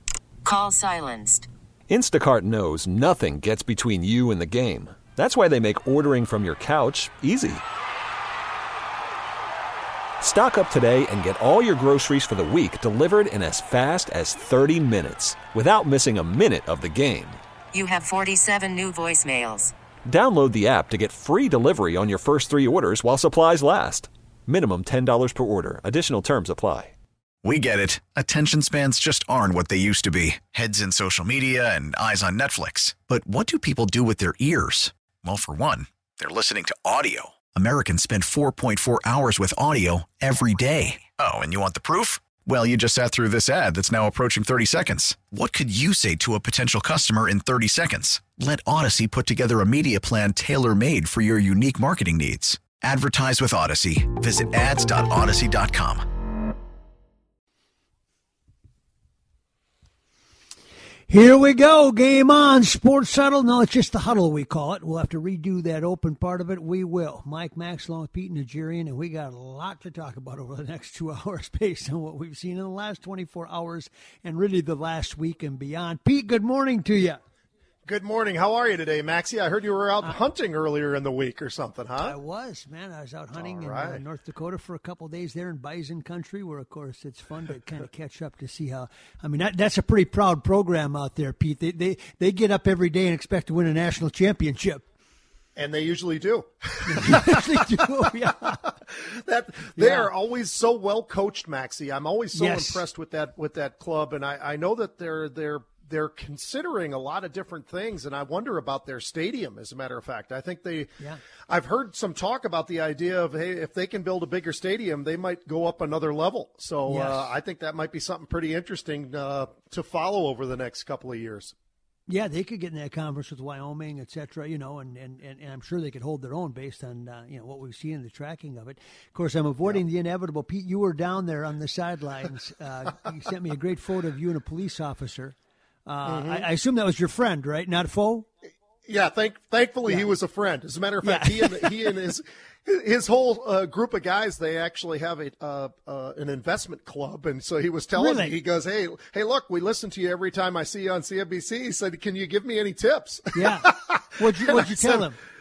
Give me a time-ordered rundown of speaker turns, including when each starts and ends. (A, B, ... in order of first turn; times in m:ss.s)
0:00.4-0:01.5 A
0:01.9-0:07.6 B
0:10.2-0:17.4 B
0:17.7-0:19.7 A
0:20.1-0:26.9 B
0:27.4-0:56.0 C
1:01.1-1:17.2 D
1:17.8-1:22.2 E
1:22.0-1:34.8 D
1:23.4-1:24.0 E
1:35.6-1:50.9 E
1:36.8-1:38.6 D
1:39.7-1:40.1 D
1:42.3-1:42.8 D
1:51.5-2:01.5 E
1:56.8-1:57.3 D
2:02.1-2:18.3 D
2:16.0-2:16.5 E
2:18.8-2:35.1 E
2:19.9-2:20.1 D
2:21.0-2:21.9 D
2:28.0-2:28.3 D
2:33.3-2:35.2 D